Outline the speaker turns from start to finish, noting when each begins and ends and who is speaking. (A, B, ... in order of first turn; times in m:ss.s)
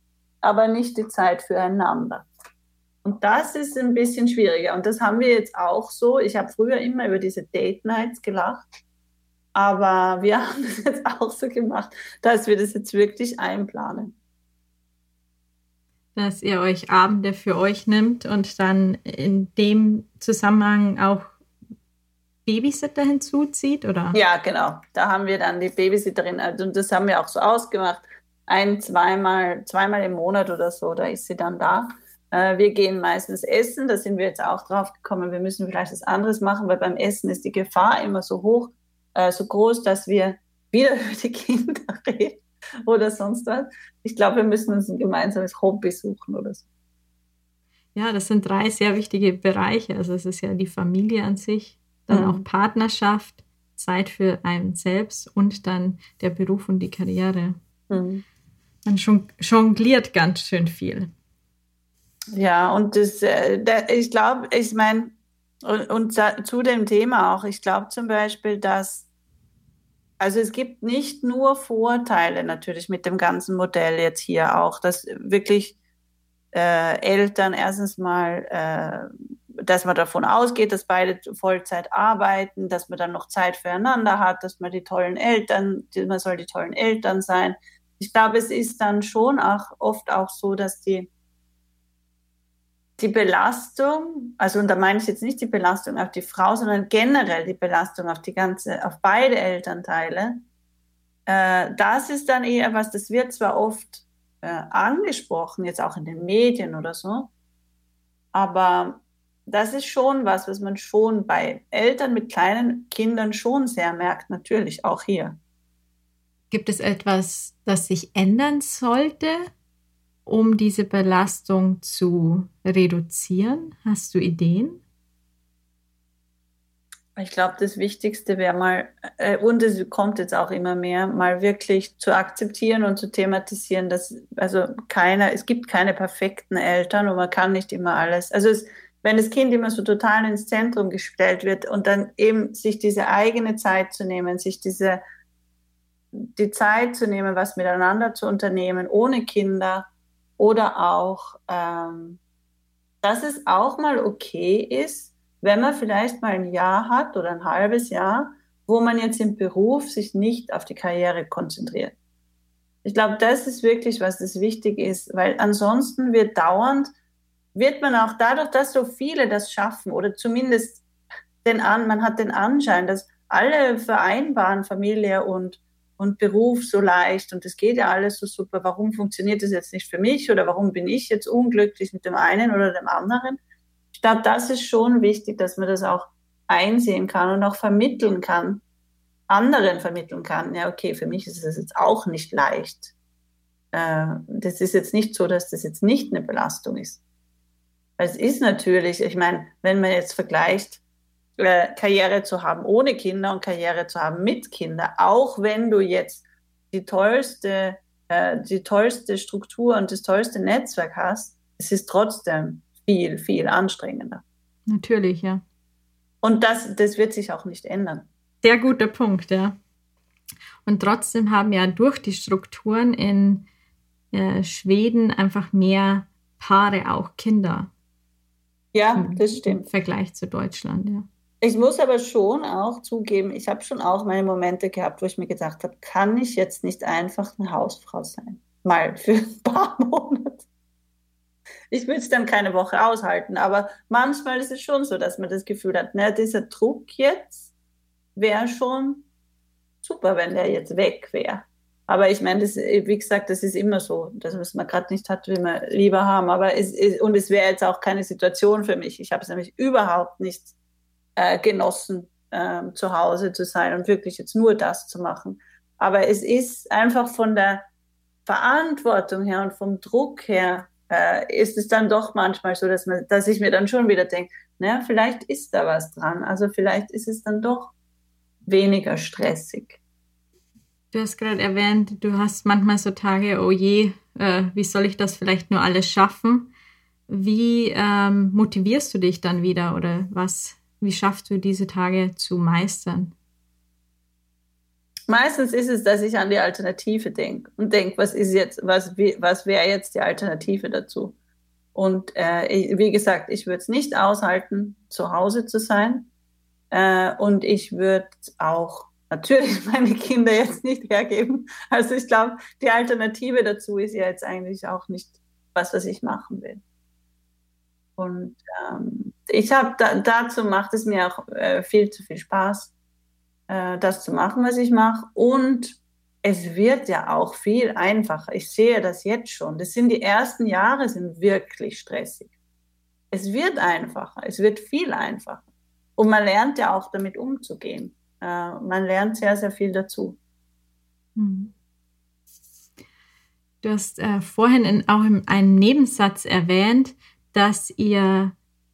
0:00.4-0:02.3 A
0:03.0-0:08.6 A
0:09.6-0:14.2 A
0:16.2-0:21.3 B
0:22.5-0:24.2 B
0:24.1-0:46.6 A
0:48.0-0:57.6 B
0:52.1-0:52.4 A
0:57.9-0:58.2 A
0:58.8-1:01.1 B
1:02.3-1:09.1 A
1:10.2-1:15.8 A
1:16.5-1:19.1 A
1:19.6-1:31.1 A
1:33.0-1:40.4 A
1:41.3-1:47.3 A
1:48.3-1:55.4 A
1:56.5-1:59.5 B
2:00.3-2:04.8 B
2:07.2-2:25.0 A
2:26.2-2:32.2 A
2:33.0-2:42.0 A
2:42.8-2:46.9 A
2:47.6-2:50.8 A
2:51.4-3:03.4 A
3:03.9-3:08.6 A
3:09.3-3:12.9 A
3:13.7-3:17.0 A
3:18.0-3:20.8 A
3:21.4-3:34.2 A
3:34.7-3:35.4 B
3:36.2-3:38.1 A
3:38.4-3:39.6 B
3:40.6-3:43.5 B
3:44.1-3:47.7 B
3:48.7-3:49.7 A
3:49.0-3:51.1 B
3:51.4-4:00.4 A
4:01.7-4:07.5 A
4:08.2-4:09.1 A
4:09.8-4:20.5 A
4:21.2-4:27.6 A
4:28.3-4:37.7 A
4:38.5-4:39.8 A
4:40.9-4:46.5 B
4:47.1-4:53.1 B
4:55.1-5:01.2 A
5:01.7-5:06.1 A
5:06.7-5:16.6 A
5:18.0-5:22.7 A
5:23.5-5:32.3 A
5:33.1-5:35.4 A
5:36.0-5:40.2 A
5:41.2-5:41.5 B
5:43.6-5:48.4 B